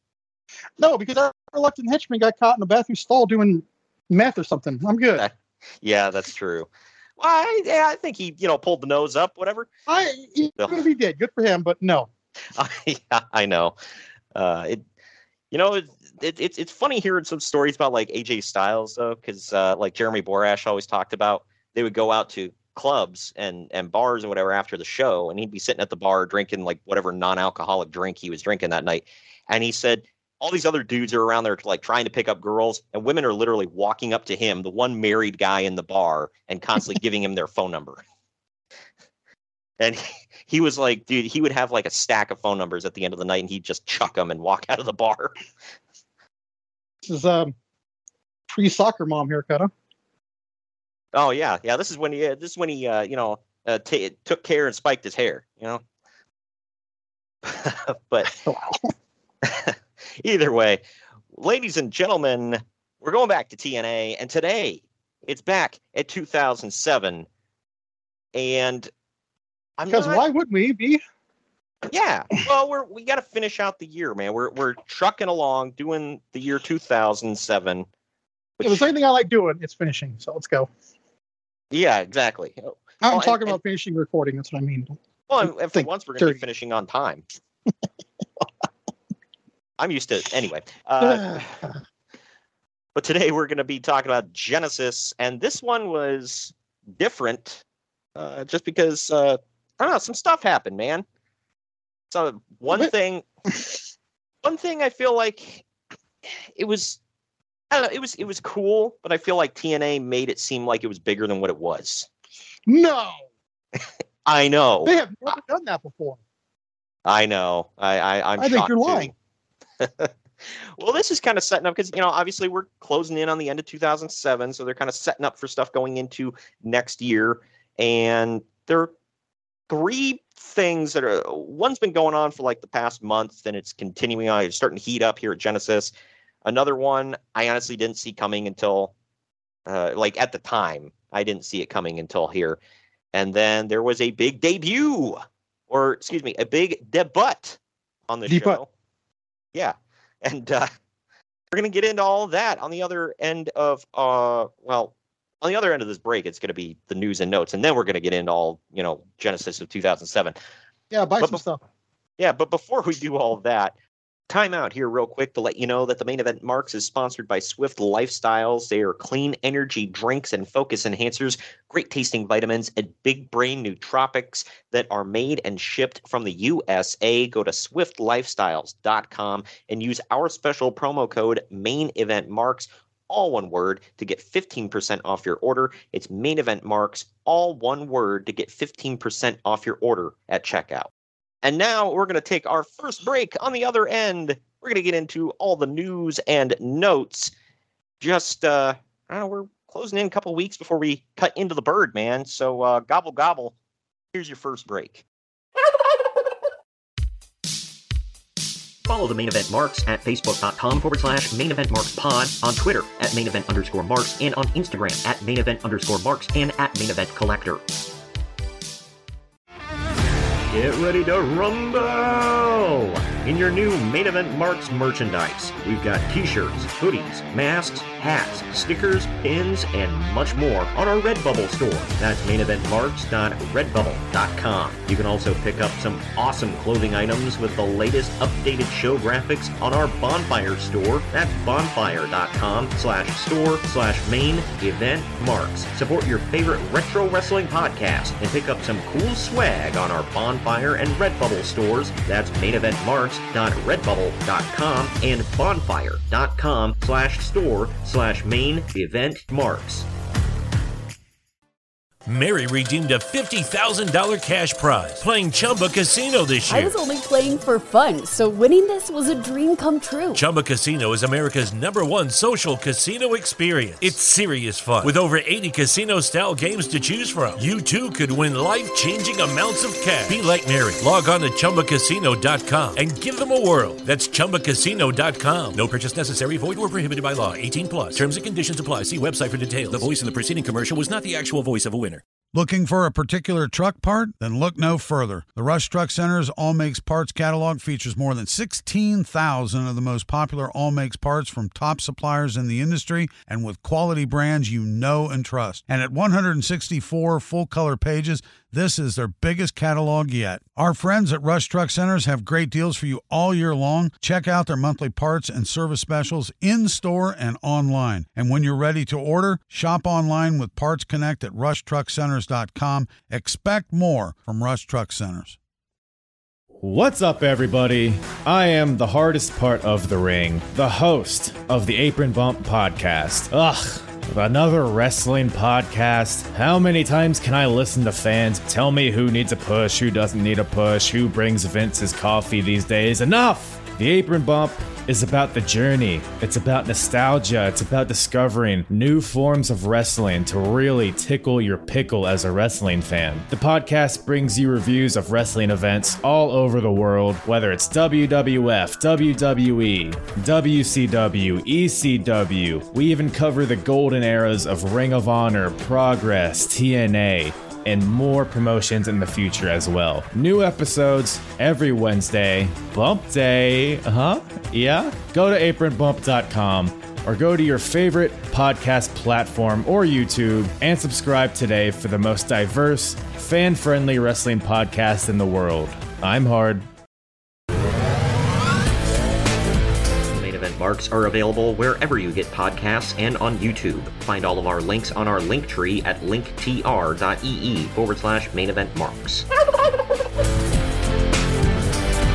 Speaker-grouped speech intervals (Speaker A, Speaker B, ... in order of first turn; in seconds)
Speaker A: 0.8-5.2, 9.9-12.1, 47.0-47.5, 48.5-49.7, 58.4-58.9, 69.9-71.0, 78.6-80.7, 83.0-84.9, 85.4-86.4, 91.0-91.7, 112.7-113.2, 114.8-116.2, 118.4-119.1, 148.3-148.6, 160.9-161.6
Speaker B: 5.2-9.7, 12.5-13.7, 14.3-14.8, 15.5-38.0, 39.8-45.3, 51.1-55.8, 57.4-58.3, 59.4-60.8, 61.3-67.3, 68.3-68.9, 69.8-70.2, 71.9-77.8, 78.6-78.9, 81.7-83.6, 85.3-87.2, 89.8-91.5, 92.9-97.6, 98.2-101.0, 102.1-103.2, 104.4-105.6, 106.6-107.0, 107.7-112.1, 114.2-115.3, 117.0-119.1, 119.8-128.9, 129.7-135.9, 136.4-138.9, 139.7-142.6, 143.1-148.7, 149.5-150.7, 151.5-160.4, 162.2-163.7, 164.3-190.9, 191.4-197.3, 198.0-203.5, 204.1-205.0, 208.9-217.6, 220.5-259.9, 390.1-399.2
Speaker C: 262.1-266.8, 270.1-292.0
Speaker D: 266.4-270.2
Speaker E: 292.3-325.4
Speaker F: 326.6-386.6